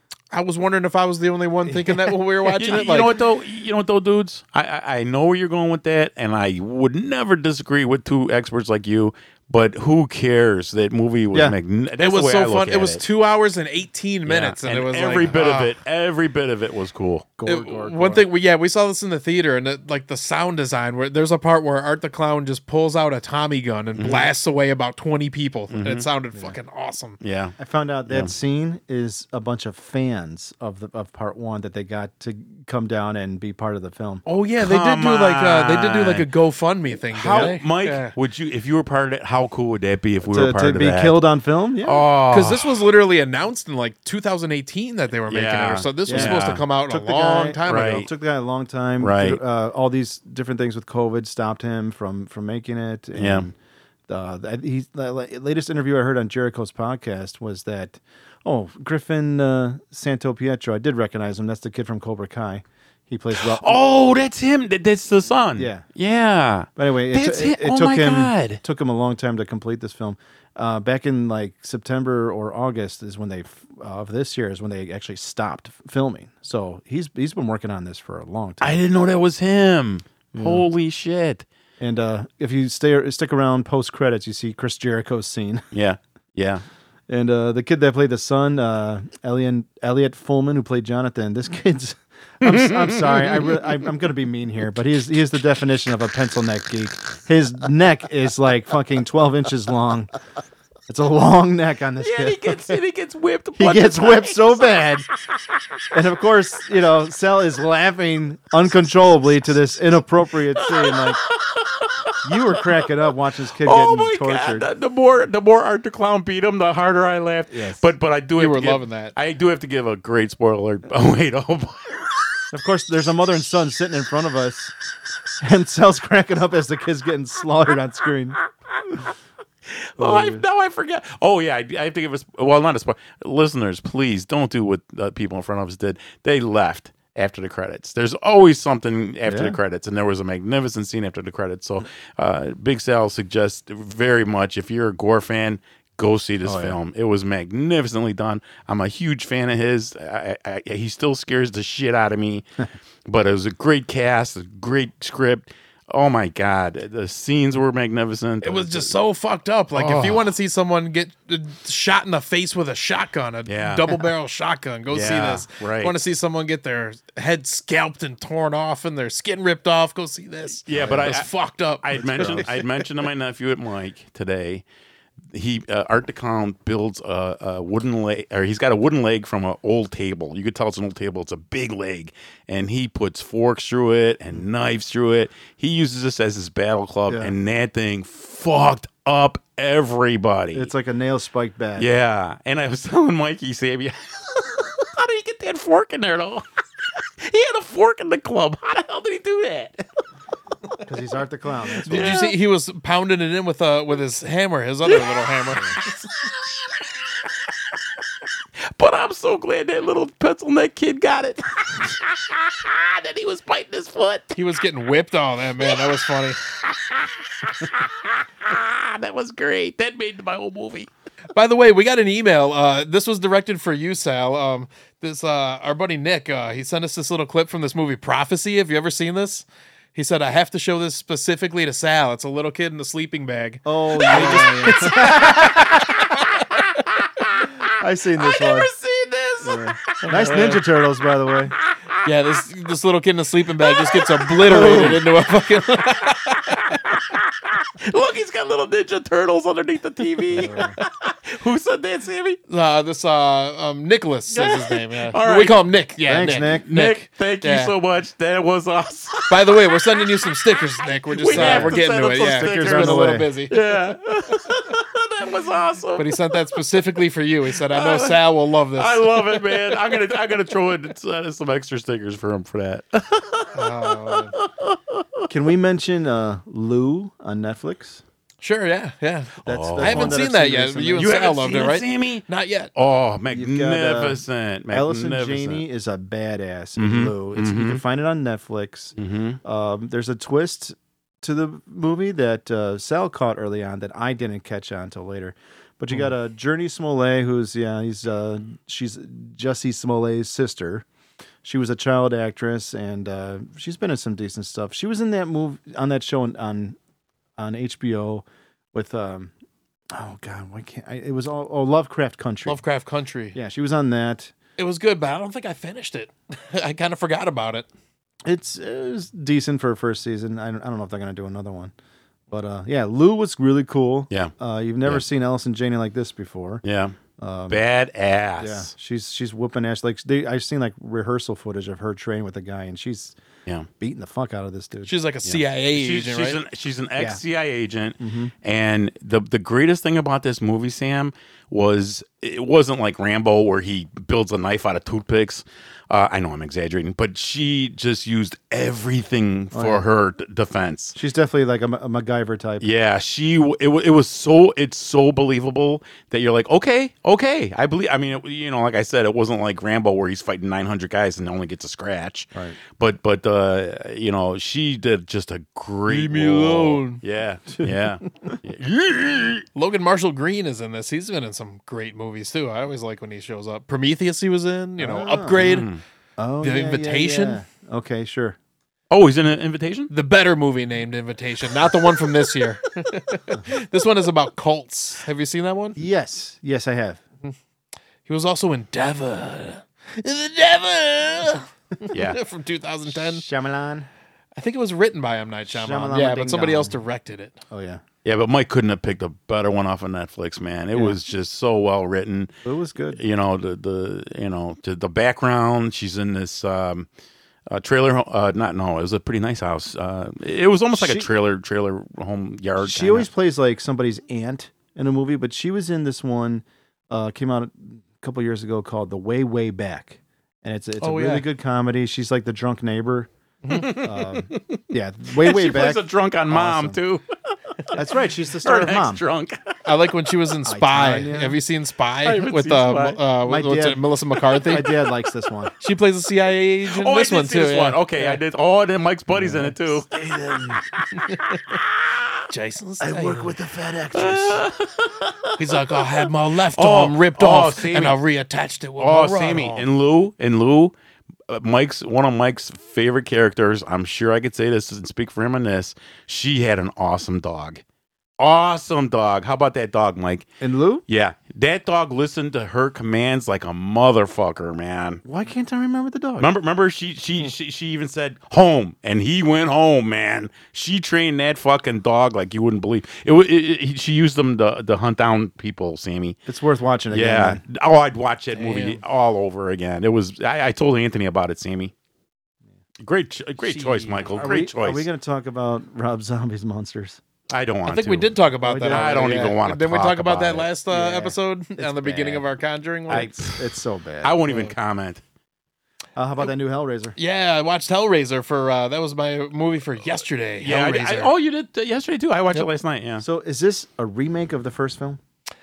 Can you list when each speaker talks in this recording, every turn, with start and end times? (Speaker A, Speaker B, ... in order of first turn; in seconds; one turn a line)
Speaker A: 0.3-3.1
Speaker B: 1.7-2.0
Speaker C: 2.4-13.0
Speaker A: 12.0-15.7
Speaker C: 14.2-17.3
Speaker B: 17.4-18.2
Speaker A: 17.4-27.2
Speaker C: 24.0-24.3
Speaker C: 25.7-26.1
Speaker C: 27.2-27.5
Speaker B: 27.6-34.2
Speaker A: 34.2-38.1
Speaker C: 34.6-36.3
Speaker C: 37.1-41.2
Speaker B: 40.2-42.0
Speaker C: 41.8-42.8
Speaker A: 42.3-48.0
Speaker C: 45.3-46.6
Speaker B: 46.1-53.5
Speaker C: 47.6-48.1
Speaker C: 49.0-49.4
Speaker C: 53.2-53.5
Speaker B: 54.1-63.8
Speaker C: 63.3-68.6
Speaker B: 65.6-65.8
Speaker B: 66.8-78.8
Speaker C: 78.6-81.4
Speaker B: 80.3-80.7
Speaker B: 81.8-85.6
Speaker C: 85.7-86.6
Speaker B: 87.1-100.1
Speaker C: 92.4-93.6
Speaker B: 100.9-102.8
Speaker C: 102.0-104.9
Speaker B: 103.6-105.1
Speaker B: 105.9-111.2
Speaker C: 110.5-112.9
Speaker B: 112.2-114.7
Speaker C: 113.6-122.4
Speaker B: 117.5-117.8
Speaker A: 118.3-119.1
Speaker B: 122.5-124.7
Speaker B: 125.4-128.4
Speaker C: 129.7-152.4
Speaker B: 130.0-130.4
Speaker B: 139.2-139.6
Speaker B: 146.4-146.8
Speaker C: 153.1-158.9
Speaker A: 158.4-172.6
Speaker C: 159.7-160.3
Speaker C: 163.5-164.0
Speaker C: 164.9-165.9
Speaker C: 170.6-171.3
Speaker B: 170.7-171.2
Speaker C: 171.8-174.6
Speaker B: 172.0-172.4
Speaker C: 175.3-190.7
Speaker B: 187.1-187.3
Speaker B: 190.5-191.9
Speaker C: 191.8-196.4
Speaker C: 197.2-199.8
Speaker B: 200.8-202.1
Speaker C: 201.8-202.4
Speaker A: 201.8-206.0
Speaker C: 204.8-205.6
Speaker C: 206.2-206.8
Speaker C: 208.7-214.3
Speaker A: 214.3-216.4
Speaker C: 215.6-220.9
Speaker A: 221.3-235.4
Speaker B: 233.6-236.0
Speaker C: 234.0-240.3
Speaker B: 237.8-238.7
Speaker B: 239.4-241.5
Speaker A: 240.0-240.6
Speaker A: 242.0-247.0
Speaker C: 243.6-245.1
Speaker B: 244.4-245.0
Speaker C: 246.0-252.4
Speaker B: 250.3-250.8
Speaker A: 252.5-257.7
Speaker C: 254.3-255.6
Speaker B: 256.1-256.7
Speaker C: 256.6-266.6
Speaker A: 259.3-263.6
Speaker B: 261.3-261.8
Speaker B: 262.4-263.3
Speaker A: 265.9-269.7
Speaker C: 267.7-275.3
Speaker A: 273.5-274.3
Speaker B: 275.3-278.0
Speaker A: 278.4-282.7
Speaker B: 279.4-281.1
Speaker C: 279.4-280.2
Speaker C: 280.9-285.6
Speaker B: 283.3-300.9
Speaker C: 286.8-287.8
Speaker C: 289.0-289.4
Speaker B: 301.4-306.8
Speaker B: 307.4-309.3
Speaker B: 309.9-312.6
Speaker A: 312.4-313.4
Speaker B: 313.3-314.3
Speaker A: 314.6-317.6
Speaker B: 318.2-321.7
Speaker B: 322.3-326.6
Speaker C: 326.6-326.9
Speaker B: 327.2-327.6
Speaker C: 327.5-328.7
Speaker B: 328.4-333.2
Speaker B: 333.8-334.9
Speaker A: 334.9-336.4
Speaker C: 335.2-350.9
Speaker B: 338.0-338.3
Speaker B: 349.5-349.8
Speaker B: 350.9-352.7
Speaker C: 352.6-369.4
Speaker A: 365.9-367.0
Speaker A: 369.5-375.7
Speaker B: 374.8-375.6
Speaker C: 375.4-375.8
Speaker B: 376.2-378.4
Speaker A: 376.4-377.4
Speaker C: 378.9-379.9
Speaker A: 379.9-385.8
Speaker B: 385.8-387.0
Speaker A: 388.1-393.2
Speaker C: 391.9-392.2
Speaker B: 393.0-393.9
Speaker A: 394.4-397.4
Speaker B: 395.5-396.8
Speaker B: 397.5-397.8
Speaker C: 398.0-402.3
Speaker B: 402.4-403.0
Speaker C: 403.0-406.9
Speaker C: 407.5-413.1
Speaker B: 410.7-411.1
Speaker B: 412.6-423.1
Speaker A: 420.8-421.3
Speaker A: 423.4-423.7
Speaker C: 423.5-424.6
Speaker B: 423.6-426.8
Speaker C: 425.1-427.0
Speaker B: 427.7-429.0
Speaker C: 428.4-429.5
Speaker A: 429.6-434.7
Speaker B: 430.4-431.4
Speaker C: 432.0-433.0
Speaker B: 433.2-433.8
Speaker C: 434.3-435.1
Speaker B: 434.4-435.5
Speaker A: 435.6-438.2
Speaker C: 436.7-442.2
Speaker B: 439.1-440.6
Speaker A: 440.9-441.6
Speaker A: 442.3-443.3
Speaker B: 442.8-444.4
Speaker C: 443.9-448.0
Speaker A: 445.4-449.6
Speaker C: 448.8-450.7
Speaker C: 451.3-457.6
Speaker C: 458.2-460.3
Speaker B: 460.4-460.8
Speaker C: 460.9-465.0
Speaker B: 465.0-466.3
Speaker C: 466.2-476.2
Speaker B: 476.3-477.4
Speaker C: 476.9-481.7
Speaker A: 478.3-478.8
Speaker C: 482.8-484.9
Speaker A: 483.4-484.4
Speaker B: 484.1-487.0
Speaker C: 487.3-490.5
Speaker A: 487.6-493.1
Speaker B: 488.4-489.2
Speaker B: 490.7-492.2
Speaker B: 492.9-494.2
Speaker C: 492.9-495.0
Speaker A: 494.2-494.5
Speaker B: 495.9-496.9
Speaker A: 497.0-501.1
Speaker C: 500.4-503.0
Speaker B: 503.0-505.0